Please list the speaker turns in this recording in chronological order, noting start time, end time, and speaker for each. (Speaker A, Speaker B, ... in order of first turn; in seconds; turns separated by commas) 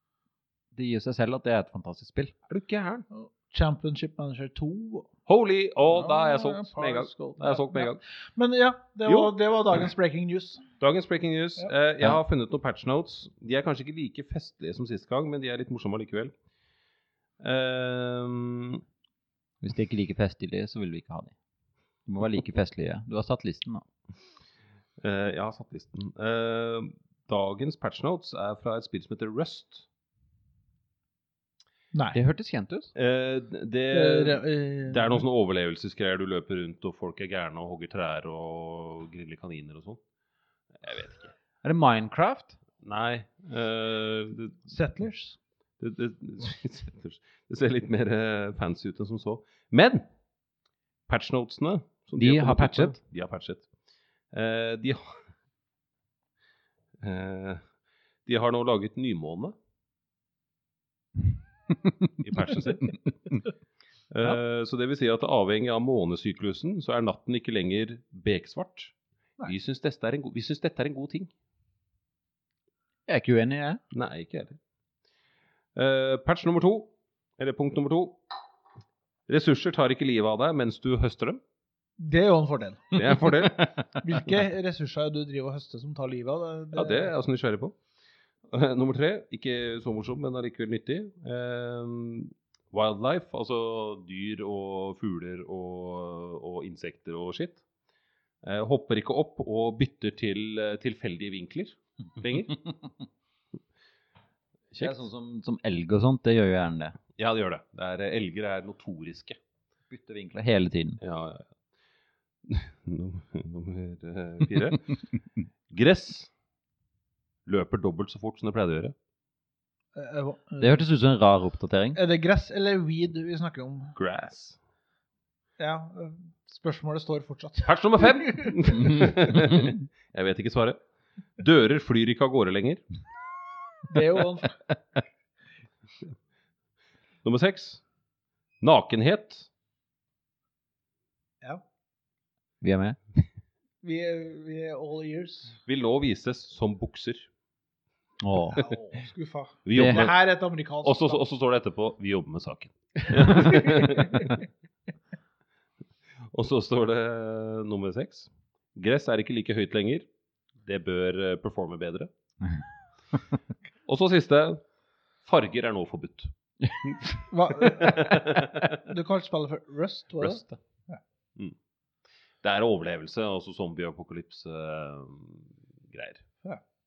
Speaker A: 0.7-2.4, Speaker B: 2.5-3.1, Speaker C: 3.1-5.1, Speaker B: 5.3-8.0, Speaker C: 5.9-10.6, Speaker B: 9.1-9.3, Speaker B: 10.8-16.3, Speaker B: 17.4-18.8, Speaker A: 19.6-21.4, Speaker A: 22.1-23.9, Speaker B: 25.0-29.9, Speaker C: 31.9-32.2, Speaker A: 32.1-32.9, Speaker B: 33.0-40.0, Speaker C: 33.9-35.2, Speaker B: 40.8-41.3, Speaker A: 41.6-42.6, Speaker B: 42.8-44.7, Speaker C: 44.7-45.4, Speaker B: 45.8-50.1, Speaker B: 51.1-53.7, Speaker A: 52.2-53.0, Speaker B: 54.3-55.2, Speaker B: 57.0-57.6, Speaker B: 58.3-59.5, Speaker B: 62.2-63.0, Speaker B: 64.1-71.3, Speaker A: 73.1-73.8, Speaker B: 73.9-74.6, Speaker B: 75.8-78.2, Speaker B: 79.3-81.4, Speaker C: 82.0-83.0, Speaker B: 82.9-83.9, Speaker C: 84.0-87.1, Speaker B: 86.7-87.8, Speaker B: 88.5-97.6, Speaker B: 98.4-102.6, Speaker B: 104.7-105.0, Speaker A: 104.8-107.0, Speaker B: 107.2-109.4, Speaker A: 109.9-111.0, Speaker B: 111.0-111.5, Speaker B: 112.5-115.0, Speaker B: 115.7-116.3, Speaker B: 117.5-119.0, Speaker C: 120.0-120.8, Speaker A: 120.6-122.0, Speaker C: 122.0-123.9, Speaker B: 124.0-124.6, Speaker C: 125.6-128.6, Speaker B: 127.7-130.8, Speaker A: 128.8-129.8, Speaker B: 131.4-132.8, Speaker C: 133.9-134.6, Speaker B: 137.2-137.8, Speaker B: 138.6-139.5, Speaker A: 142.6-143.0, Speaker C: 143.8-145.6, Speaker B: 145.7-147.3, Speaker A: 148.2-148.6, Speaker C: 148.5-151.2, Speaker B: 149.7-150.2, Speaker A: 149.7-150.1, Speaker B: 150.8-154.4, Speaker C: 153.3-154.4, Speaker B: 156.3-160.1, Speaker B: 160.6-162.1, Speaker B: 163.9-164.6, Speaker B: 165.2-166.3, Speaker B: 166.8-168.8, Speaker C: 167.3-171.0, Speaker B: 170.2-170.6, Speaker B: 172.4-176.3